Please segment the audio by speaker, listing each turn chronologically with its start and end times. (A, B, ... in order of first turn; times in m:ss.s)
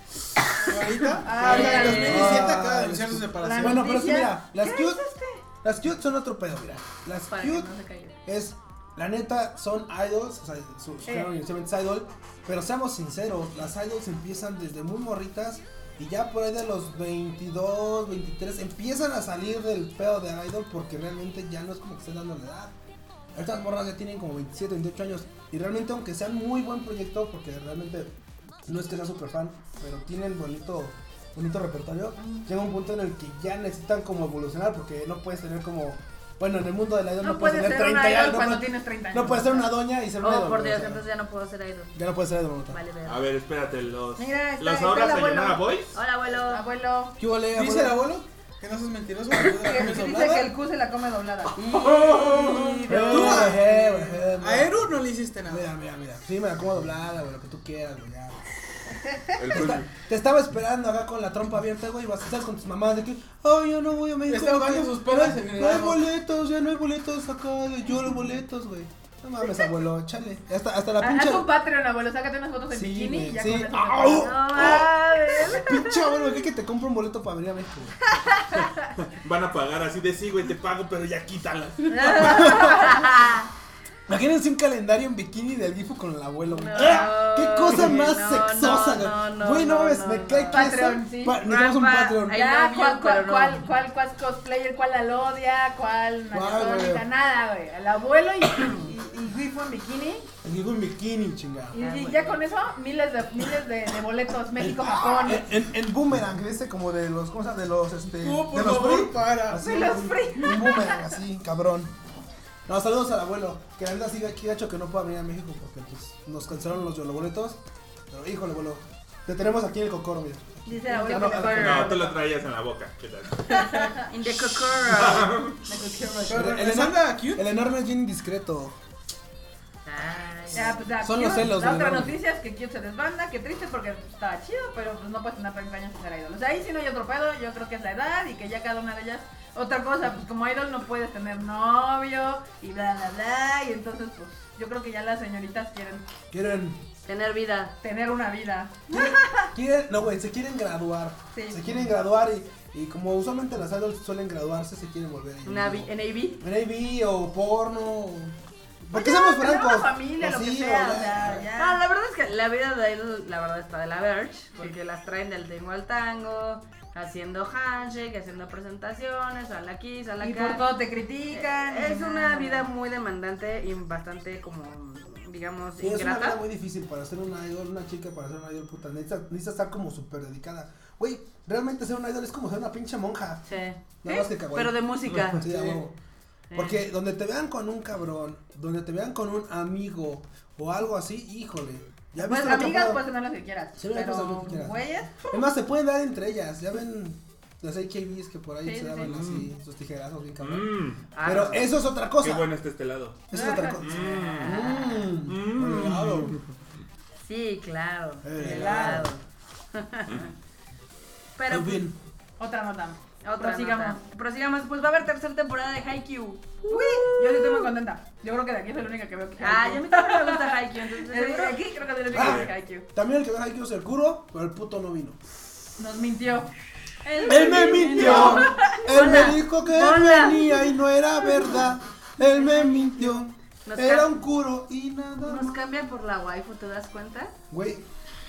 0:00.6-0:03.9 A
0:01.2-0:02.5 B
0:01.4-0:02.4 C
0:01.4-0:05.0 D
0:03.4-0:05.4 B
0:05.6-0:07.7 D
0:07.3-0:08.2 C
0:08.2-0:22.7 D
0:11.0-0:11.3 B
0:23.3-0:28.1 D
0:28.6-0:41.0 D
0:37.2-0:39.7 B
0:40.2-0:42.0 C
0:41.9-0:42.8 D
0:42.7-0:43.2 C
0:43.0-0:46.0 E
0:44.2-0:45.6 B
0:45.9-0:46.6 C
0:46.3-0:47.2 B
0:47.2-0:48.2 D
0:47.5-0:50.5 A
0:49.3-0:50.5 D
0:49.6-0:53.6 B
0:51.6-0:53.5 C
0:51.7-0:55.7 A
0:52.9-0:55.0 D
0:55.5-0:58.4 D
0:59.1-0:59.4 B
0:59.4-0:59.9 E
0:59.5-1:11.5 D
1:04.3-1:06.0 A
1:11.0-1:15.9 B
1:12.7-1:18.0 D
1:14.1-1:15.9 C
1:18.0-1:18.9 B
1:18.9-1:22.6 E
1:21.9-1:23.1 B
1:21.9-1:23.5 C
1:22.2-1:22.9 D
1:24.1-1:32.4 D
1:26.5-1:30.7 C
1:30.5-1:31.4 B
1:31.4-1:33.6 C
1:32.3-1:40.3 B
1:36.3-1:37.0 D
1:40.4-1:41.8 D
1:41.7-1:45.5 B
1:41.8-1:42.4 C
1:44.6-1:51.9 D
1:48.2-1:50.0 A
1:49.5-1:51.2 B
1:52.6-2:02.0 D
2:00.6-2:02.2 B
2:01.1-2:01.7 C
2:01.5-2:03.9 E
2:03.5-2:04.0 B
2:03.5-2:05.4 C
2:04.9-2:05.6 E
2:05.6-2:06.5 B
2:06.2-2:07.4 A
2:06.3-2:08.8 D
2:09.8-2:10.8 C
2:10.5-2:26.1 B
2:11.0-2:12.2 D
2:26.3-2:26.8 D
2:27.0-2:27.7 C
2:27.8-2:29.5 B
2:28.9-2:41.5 D
2:31.3-2:31.8 B
2:35.4-2:36.4 C
2:38.9-2:41.8 B
2:41.6-2:50.6 C
2:50.2-2:52.6 B
2:51.3-2:56.4 C
2:55.8-3:03.4 D
3:03.4-3:05.4 C
3:04.0-3:05.9 D
3:05.1-3:05.4 E
3:05.5-3:05.8 A
3:06.5-3:06.8 C
3:06.5-3:13.0 D
3:12.2-3:15.3 B
3:13.8-3:20.7 D
3:18.6-3:19.1 B
3:19.1-3:19.5 E
3:20.4-3:21.1 E
3:21.1-3:21.7 C
3:21.2-3:22.5 D
3:22.2-3:24.7 E
3:23.3-3:26.4 D
3:23.3-3:23.8 B
3:23.8-3:25.1 C
3:25.2-3:26.5 E
3:25.8-3:26.2 A
3:27.2-3:30.3 C
3:28.2-3:29.1 D
3:28.4-3:29.0 B
3:31.4-3:31.8 C
3:31.5-3:32.0 D
3:32.4-3:34.0 B
3:33.2-3:37.7 C
3:36.7-3:42.8 B
3:39.4-3:41.6 C
3:42.1-3:45.2 D
3:42.1-3:42.5 E
3:45.8-3:46.5 B
3:47.0-3:50.6 C
3:47.0-3:48.8 B
3:47.2-3:55.6 D
3:53.6-3:54.1 C
3:55.2-3:57.3 C
3:57.5-3:57.8 D